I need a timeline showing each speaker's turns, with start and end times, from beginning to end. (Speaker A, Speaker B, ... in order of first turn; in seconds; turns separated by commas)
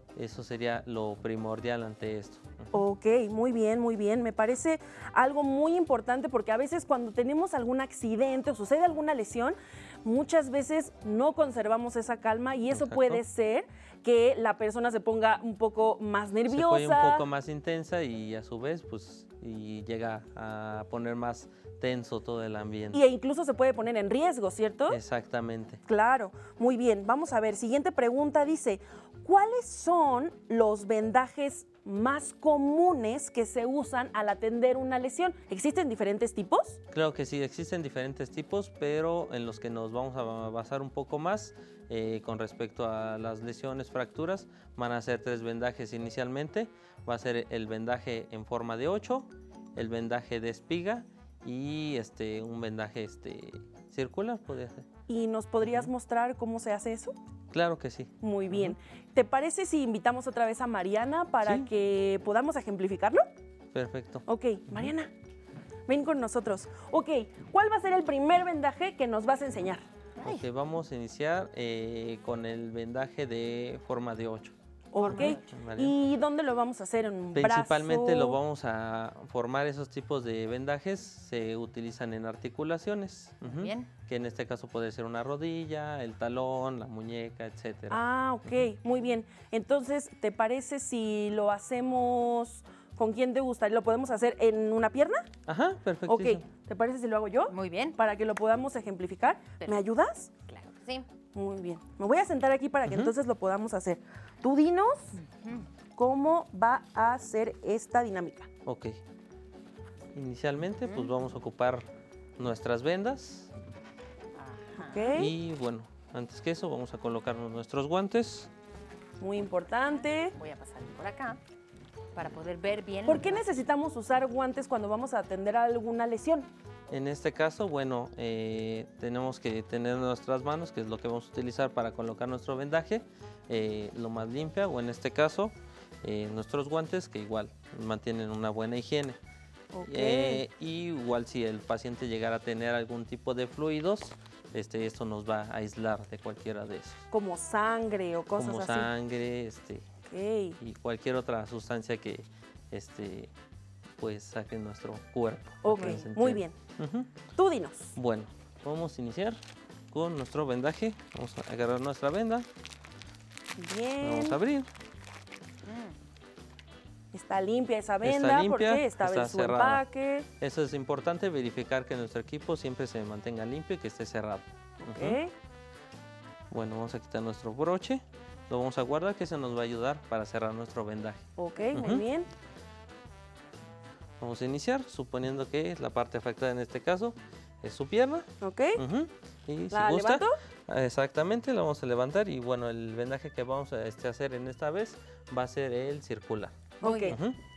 Speaker A: 0.2-2.7, Speaker B: 2.7-17.3, Speaker A: 12.7-13.2, Speaker A: 16.5-23.0, Speaker B: 22.9-25.0, Speaker A: 24.9-25.8, Speaker B: 25.9-36.8, Speaker A: 36.9-54.9, Speaker B: 55.1-57.1, Speaker A: 55.6-55.9, Speaker A: 57.5-58.8, Speaker B: 58.2-63.2, Speaker A: 63.7-64.9, Speaker B: 64.3-65.1, Speaker B: 65.9-69.8, Speaker C: 70.2-70.5, Speaker A: 70.2-74.5, Speaker B: 74.9-78.4, Speaker C: 75.0-75.4, Speaker A: 75.1-76.0, Speaker A: 77.3-88.0, Speaker C: 83.5-83.9, Speaker B: 87.9-95.3, Speaker A: 95.5-96.4, Speaker B: 96.1-100.3, Speaker C: 97.5-98.0, Speaker C: 100.5-101.1, Speaker B: 101.3-105.2, Speaker A: 102.9-103.1, Speaker C: 105.2-105.7, Speaker B: 106.0-108.5, Speaker A: 108.7-109.0, Speaker A: 110.2-113.5, Speaker C: 110.9-111.1, Speaker C: 114.4-115.1, Speaker B: 114.8-115.3, Speaker A: 115.1-118.5, Speaker B: 119.2-120.3, Speaker C: 120.3-121.4, Speaker C: 122.1-123.5, Speaker B: 123.1-126.5, Speaker A: 126.9-139.2, Speaker B: 139.7-140.4, Speaker A: 139.9-147.0, Speaker B: 147.1-148.9, Speaker A: 148.4-149.9, Speaker B: 150.1-150.6, Speaker A: 150.6-153.3, Speaker A: 154.0-157.1, Speaker B: 155.6-156.6, Speaker C: 155.7-156.1, Speaker B: 157.4-157.9, Speaker A: 157.9-162.5, Speaker B: 163.6-164.4, Speaker A: 164.0-164.7, Speaker C: 165.6-166.0, Speaker B: 167.1-170.3, Speaker A: 168.0-169.8, Speaker A: 170.4-175.2, Speaker B: 174.8-175.3, Speaker A: 176.5-182.1, Speaker B: 181.4-182.3, Speaker A: 184.2-197.4, Speaker B: 188.4-188.8, Speaker B: 189.7-190.3, Speaker C: 196.8-197.2, Speaker B: 196.8-197.2